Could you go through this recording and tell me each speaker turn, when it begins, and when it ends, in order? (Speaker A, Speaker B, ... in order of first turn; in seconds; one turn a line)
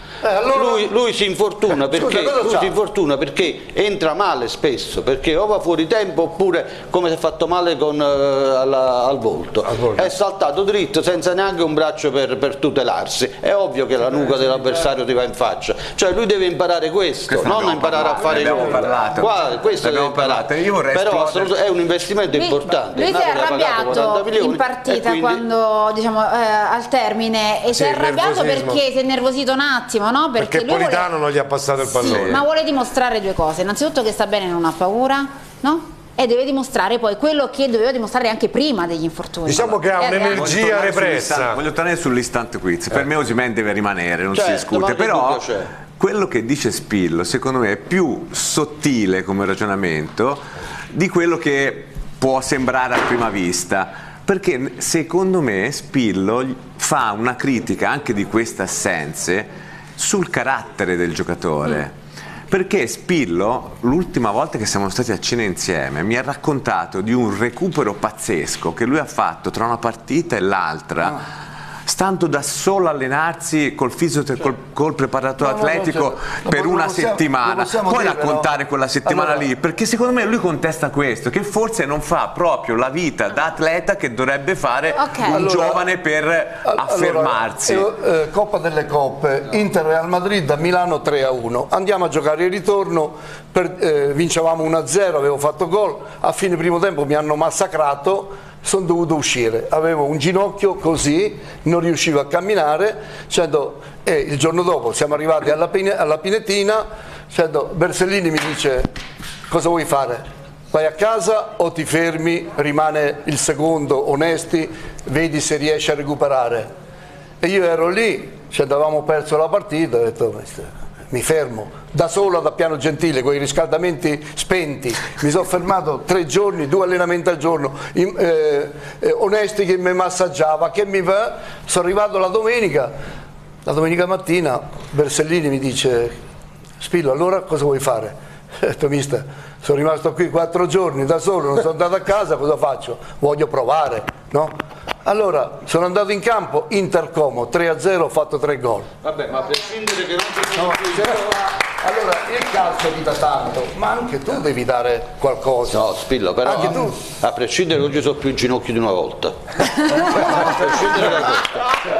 Speaker A: 0.2-0.9
Speaker B: 0.4-25.4
Speaker A: 1.7-2.7
Speaker C: 9.7-10.1
Speaker D: 17.3-21.6
Speaker E: 22.3-31.1
Speaker C: 27.7-28.8
Speaker C: 30.4-32.4
Speaker E: 31.9-40.7
Speaker C: 39.5-41.6
Speaker D: 40.3-61.9
Speaker B: 44.3-45.7
Speaker D: 62.5-71.2
Speaker D: 71.9-87.9
Speaker A: 75.4-78.5
Speaker A: 79.0-79.5
Speaker E: 85.0-85.4
Speaker A: 85.3-85.9
Speaker A: 86.7-108.9
Speaker A: 109.5-116.7
Speaker A: 117.4-132.9
Speaker A: 133.6-136.2
Speaker A: 136.8-144.5
Speaker A: 145.0-148.9
Speaker B: 149.0-151.2
Speaker A: 150.5-155.8
Speaker B: 155.6-161.6
Speaker A: 156.4-157.1